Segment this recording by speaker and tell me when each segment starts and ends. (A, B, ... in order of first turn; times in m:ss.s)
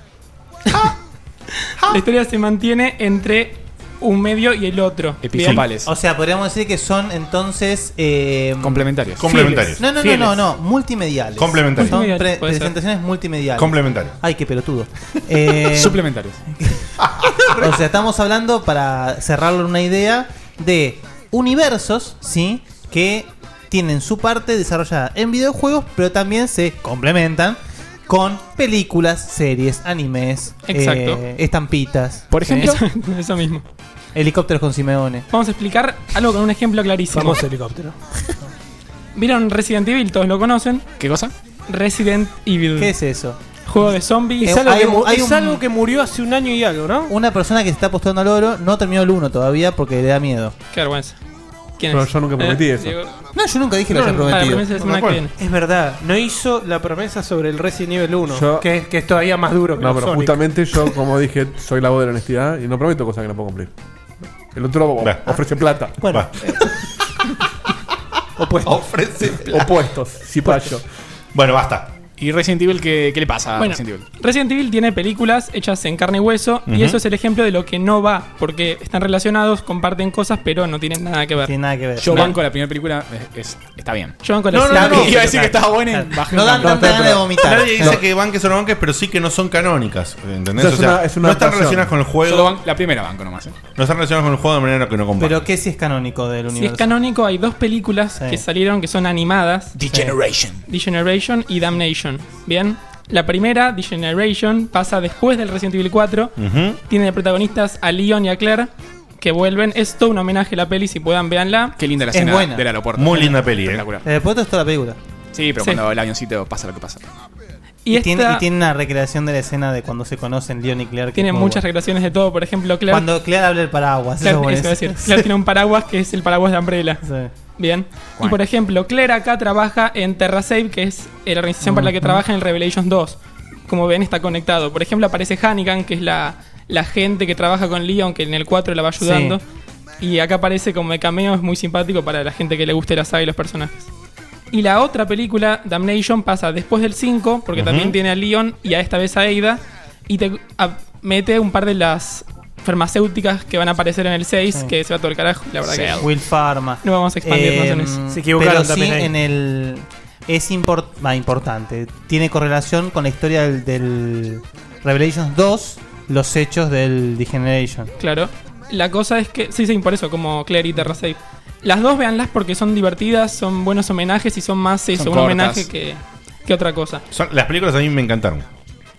0:01.8-0:05.7 A
0:05.2-0:05.9 B
0:05.8-0:08.9 C
0:08.6-0:09.5 B
0:09.2-0:09.8 D
0:09.7-0:16.0 C
0:11.4-0:12.0 D
0:11.8-0:12.8 A
0:13.6-0:14.1 D
0:15.7-0:16.4 B
0:17.0-0:17.5 D
0:17.5-0:32.8 C
0:30.7-0:31.2 A
0:32.3-0:32.7 B
0:32.5-0:33.6 A
0:34.1-0:35.3 C
0:35.3-0:37.4 A
0:37.1-0:38.0 E
0:39.2-0:40.9 A
0:41.0-0:41.3 B
0:41.7-0:43.0 A
0:42.8-0:43.4 C
0:43.6-0:44.6 A
0:44.4-0:45.6 C
0:44.4-0:47.1 E
0:47.1-0:50.6 C
0:50.7-0:51.2 A
0:51.8-0:53.2 A
0:51.9-0:53.0 F
0:53.3-0:54.7 C
0:53.9-0:55.3 A
0:54.8-0:55.2 D
0:55.4-1:00.4 E
0:58.3-0:58.7 F
0:59.8-1:03.7 F
1:04.5-1:06.0 F
1:05.0-1:05.4 D
1:06.0-1:06.3 D
1:08.4-1:08.8 E
1:08.6-1:09.7 D
1:09.4-1:10.8 F
1:10.4-1:10.7 E
1:11.3-1:11.9 D
1:12.2-1:14.1 B
1:13.5-1:21.5 A
1:16.7-1:17.0 D
1:21.4-1:22.4 C
1:22.0-1:27.7 B
1:24.2-1:25.5 A
1:24.5-1:28.0 C
1:27.4-1:32.6 D
1:30.6-1:31.9 F
1:32.2-1:33.6 B
1:33.8-1:35.4 D
1:35.2-1:36.9 C
1:36.5-1:39.8 A
1:38.2-1:38.4 C
1:39.8-1:40.6 B
1:39.9-1:40.2 C
1:40.7-1:46.4 A
1:46.4-1:46.8 D
1:46.9-1:51.8 A
1:51.8-1:54.0 B
1:52.1-1:52.7 C
1:53.0-1:53.8 D
1:54.0-1:55.0 C
1:55.3-1:57.0 B
1:55.6-1:55.8 A
1:57.8-1:58.4 A
1:57.9-2:01.6 C
2:01.2-2:03.1 A
2:02.9-2:05.3 C
2:04.2-2:07.0 A
2:07.0-2:07.3 C
2:07.6-2:19.4 A
2:11.6-2:12.2 C
2:19.0-2:19.4 C
2:20.0-2:23.9 A
2:24.5-2:36.1 A
2:27.5-2:28.0 D
2:35.6-2:36.1 B
2:36.0-2:47.9 C
2:36.8-2:38.0 A
2:38.1-2:39.1 E
2:48.0-2:57.0 A
2:54.9-2:55.7 B
2:57.1-2:58.4 D